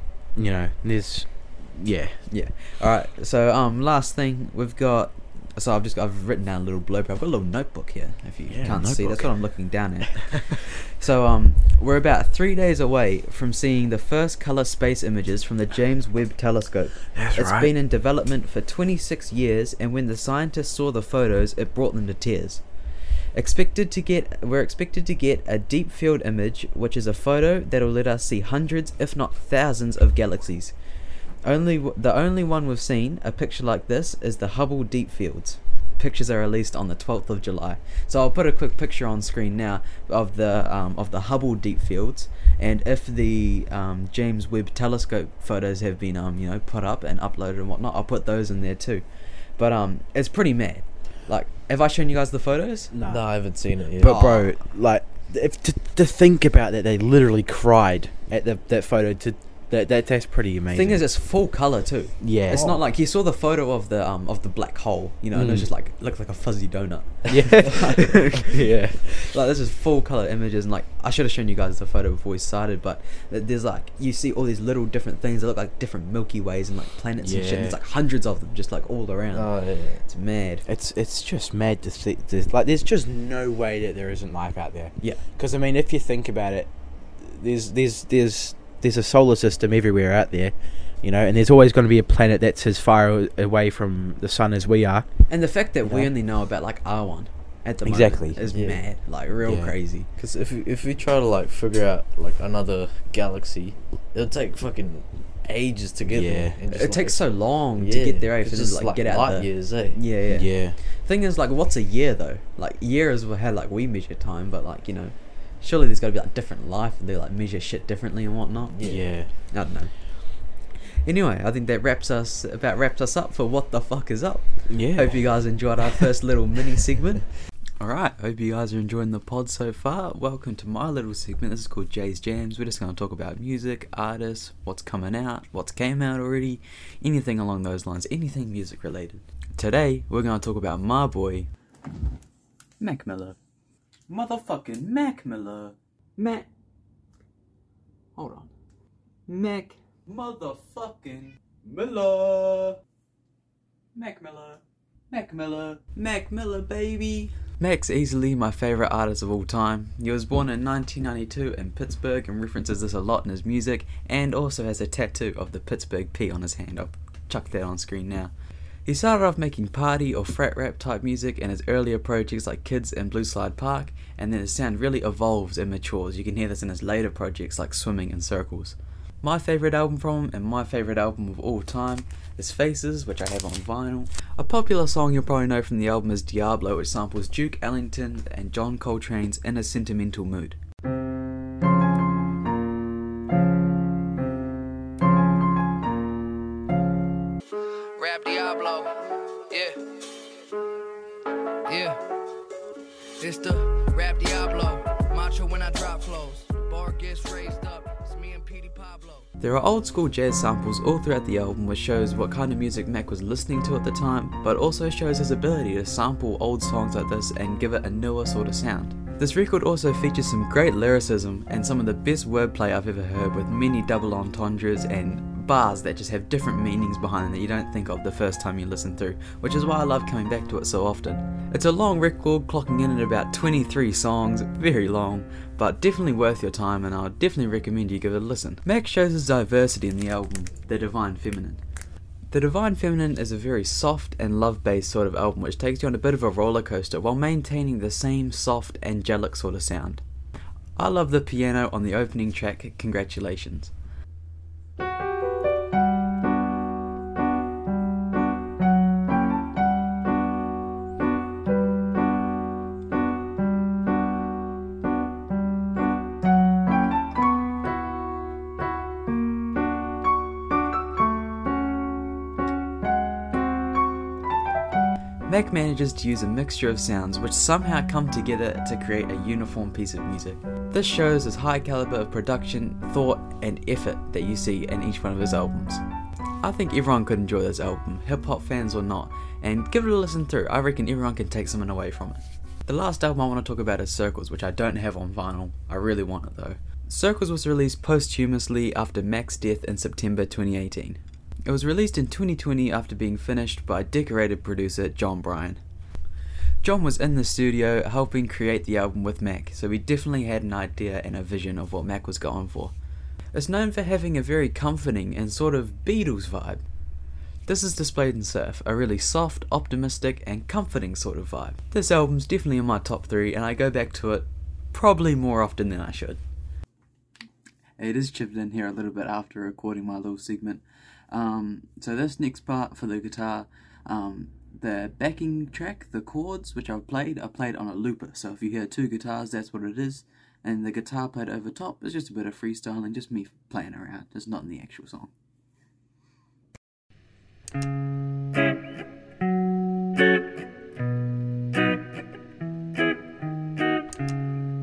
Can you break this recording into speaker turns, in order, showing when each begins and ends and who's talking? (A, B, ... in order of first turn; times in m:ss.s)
0:00.4-0:02.2 A
0:02.3-0:22.6 B
0:08.5-0:09.3 A
0:10.1-0:10.5 A
0:17.1-0:17.7 A
0:23.3-0:30.7 B
0:31.4-0:49.0 B
0:49.6-0:52.9 B
0:52.9-0:53.2 A
0:53.0-0:54.2 C
0:54.0-1:01.0 A
0:54.0-0:54.5 B
1:00.7-1:19.5 B
1:02.2-1:02.8 A
1:05.3-1:05.7 A
1:07.3-1:09.3 A
1:17.2-1:17.8 A
1:19.3-1:20.0 C
1:20.0-1:20.6 B
1:20.7-1:26.7 A
1:27.2-1:35.1 A
1:35.3-1:40.1 B
1:35.8-1:36.1 A
1:37.8-1:38.4 A
1:38.5-1:38.8 C
1:39.4-1:39.7 A
1:40.2-1:47.2 C
1:46.1-1:46.6 A
1:46.7-1:58.8 B
1:47.8-1:50.0 C
1:50.3-1:50.8 A
1:58.7-1:59.1 C
1:58.8-1:59.3 A
1:59.5-1:59.9 B
2:01.0-2:07.2 B
2:04.7-2:05.2 A
2:07.8-2:21.5 B
2:22.8-2:23.4 B
2:24.1-2:26.5 B
2:28.2-2:28.5 B
2:29.3-2:32.8 B
2:33.9-2:48.3 B
2:48.8-3:10.6 B
3:18.0-3:20.6 D
3:21.6-3:22.2 D
3:23.2-3:29.3 D
3:29.4-4:01.6 B
4:02.3-4:10.0 B
4:10.8-4:13.7 B
4:35.3-4:45.8 B
4:46.4-5:05.6 B
5:06.6-5:12.7 B
5:13.3-5:16.6 B
5:17.4-5:26.2 B
5:27.8-5:45.1 B